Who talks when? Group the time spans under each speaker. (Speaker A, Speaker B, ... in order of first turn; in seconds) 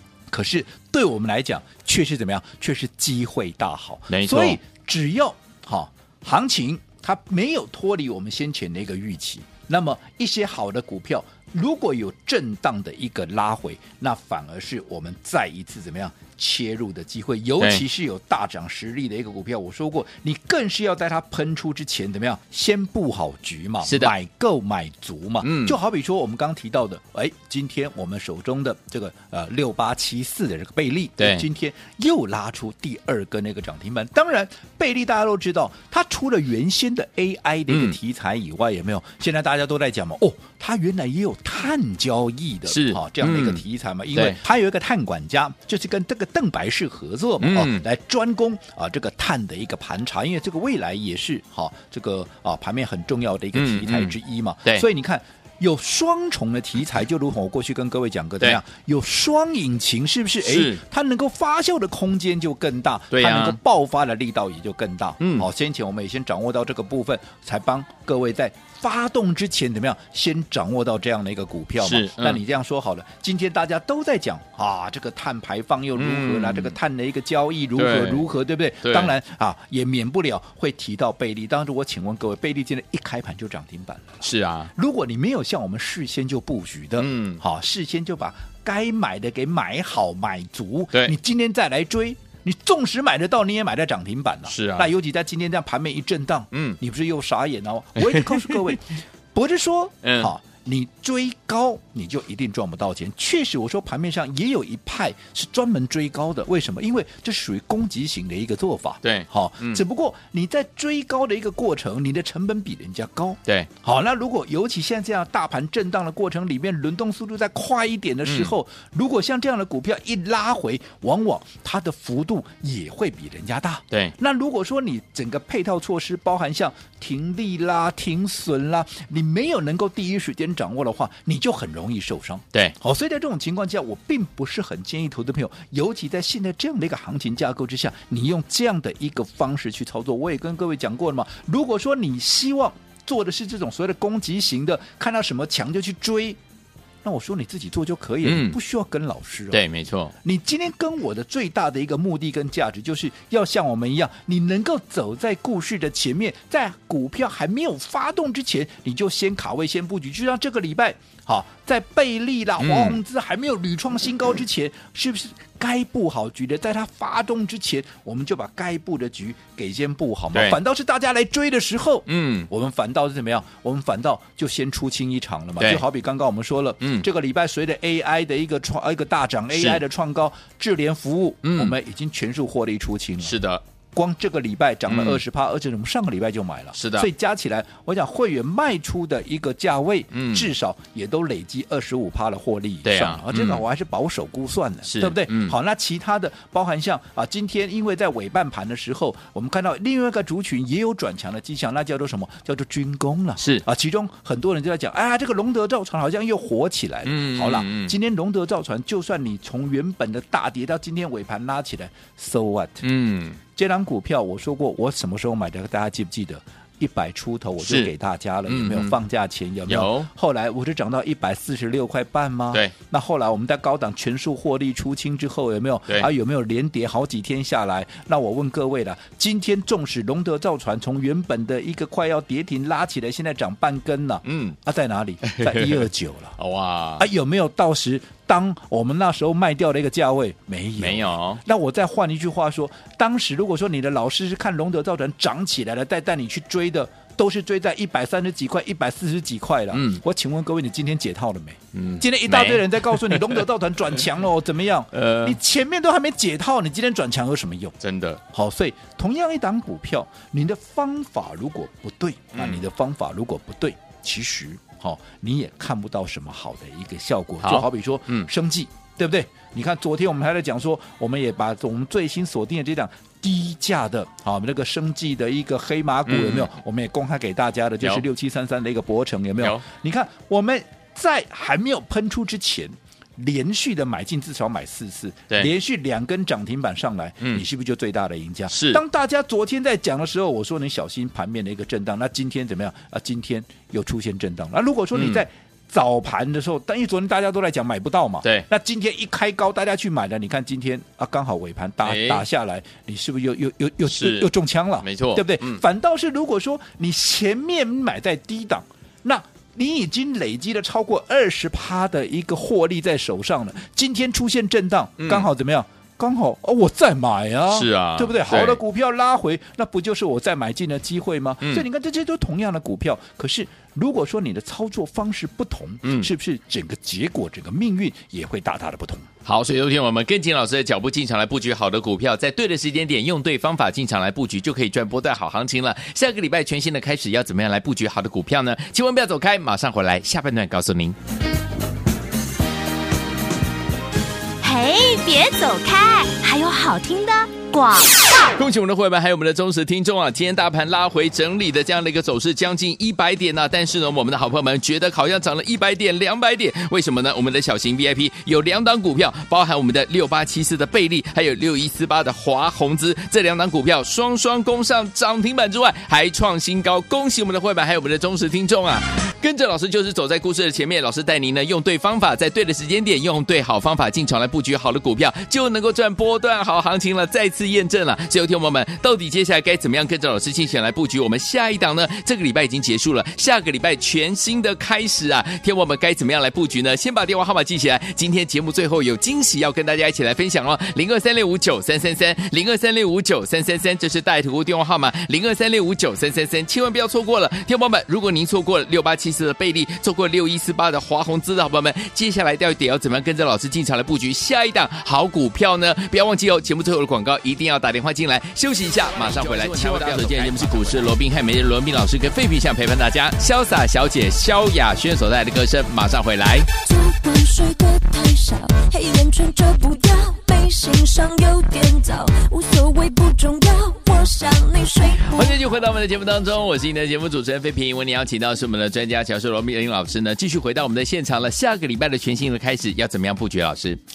Speaker A: 0.3-146.4, 147.0-149.6, 150.2-183.4, 183.9-212.9, 213.5-236.4, 237.0-257.8, 258.3-329.1
Speaker B: 4.1-4.6, 23.8-24.1, 25.4-25.8, 31.2-31.4, 37.7-38.0, 42.6-44.4, 47.4-47.8, 53.5-54.8, 60.4-60.8, 63.1-63.6, 65.2-65.5, 71.8-72.4, 75.9-76.8, 77.8-78.3, 78.8-79.1, 84.2-84.7, 87.0-87.4, 94.5-94.9, 96.5-96.8, 98.0-98.8, 100.0-100.3, 109.0-109.8, 118.2-118.5, 148.2-148.6, 149.5-150.1, 162.6-163.0, 172.1-172.5, 176.8-177.1, 179.5-179.8, 181.4-181.7, 183.2-183.6, 184.8-185.2, 186.7-187.1, 190.1-190.5, 192.8-193.6, 194.8-195.5, 203.4-203.6, 207.0-207.9, 212.8-213.4, 217.6-217.9, 218.4-218.9, 219.7-220.1, 234.2-234.6, 235.2-237.1, 240.8-241.4, 249.7-250.0, 251.7-253.4, 254.9-255.4, 257.8-258.2, 262.3-262.6, 267.4-268.3, 276.1-276.5, 277.8-278.1, 279.4-279.6, 288.5-288.8, 294.9-295.2, 301.8-302.2, 303.8-304.3, 304.8-305.6, 315.0-315.3, 317.5-318.6, 325.8-326.1, 329.2-341.0, 348.1-416.5, 424.9-433.8
Speaker C: 344.4-348.0
Speaker D: 416.6-425.4